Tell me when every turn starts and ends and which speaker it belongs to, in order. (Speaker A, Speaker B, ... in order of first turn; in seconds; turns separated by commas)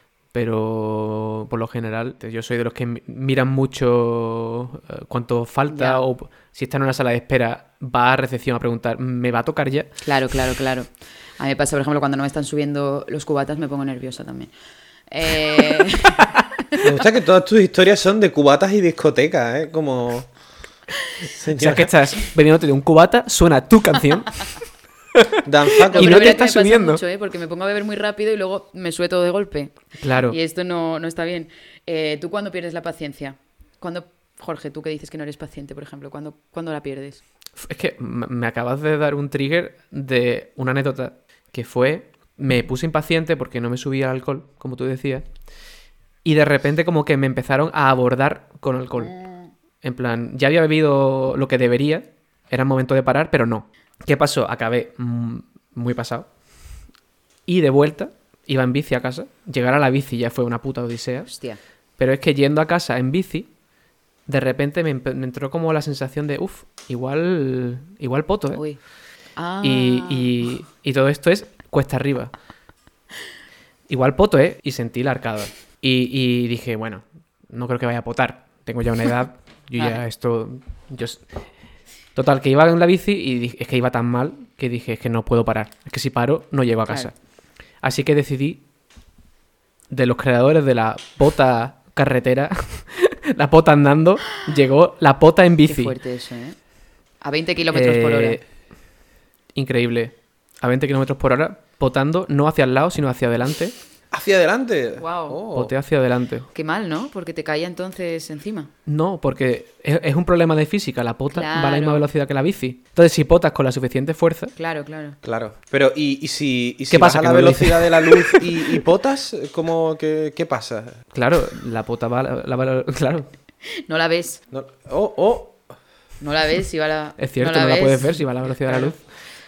Speaker A: 0.3-9.9, Speaker B: 5.7-6.0, Speaker B: 10.0-14.5, Speaker B: 15.1-16.9, Speaker C: 16.8-20.3, Speaker C: 21.3-21.9, Speaker A: 21.5-24.5, Speaker A: 25.1-27.0, Speaker C: 25.4-26.4, Speaker B: 25.9-37.2, Speaker A: 30.0-30.4, Speaker A: 37.6-45.2, Speaker A: 46.2-49.2, Speaker B: 49.0-49.4, Speaker A: 49.8-56.3, Speaker A: 57.5-61.3, Speaker B: 61.3-61.6, Speaker A: 62.0-63.5, Speaker A: 64.3-68.6, Speaker B: 68.5-68.8, Speaker B: 69.3-70.5, Speaker A: 69.6-72.3, Speaker A: 73.9-81.3, Speaker B: 79.8-80.0, Speaker A: 82.1-87.1, Speaker A: 87.8-88.6, Speaker A: 89.9-96.0, Speaker B: 95.7-96.6, Speaker B: 97.2-98.4, Speaker A: 97.7-98.4, Speaker A: 99.5-103.7, Speaker C: 104.1-105.7, Speaker B: 105.0-105.4, Speaker A: 105.5-106.5, Speaker B: 106.5-108.7, Speaker A: 108.8-114.5, Speaker B: 111.3-112.0, Speaker B: 114.6-115.2, Speaker C: 115.2-121.0, Speaker A: 116.9-118.8, Speaker A: 121.1-123.3, Speaker B: 123.9-124.4, Speaker C: 124.5-125.6, Speaker B: 126.2-128.9, Speaker A: 127.2-129.0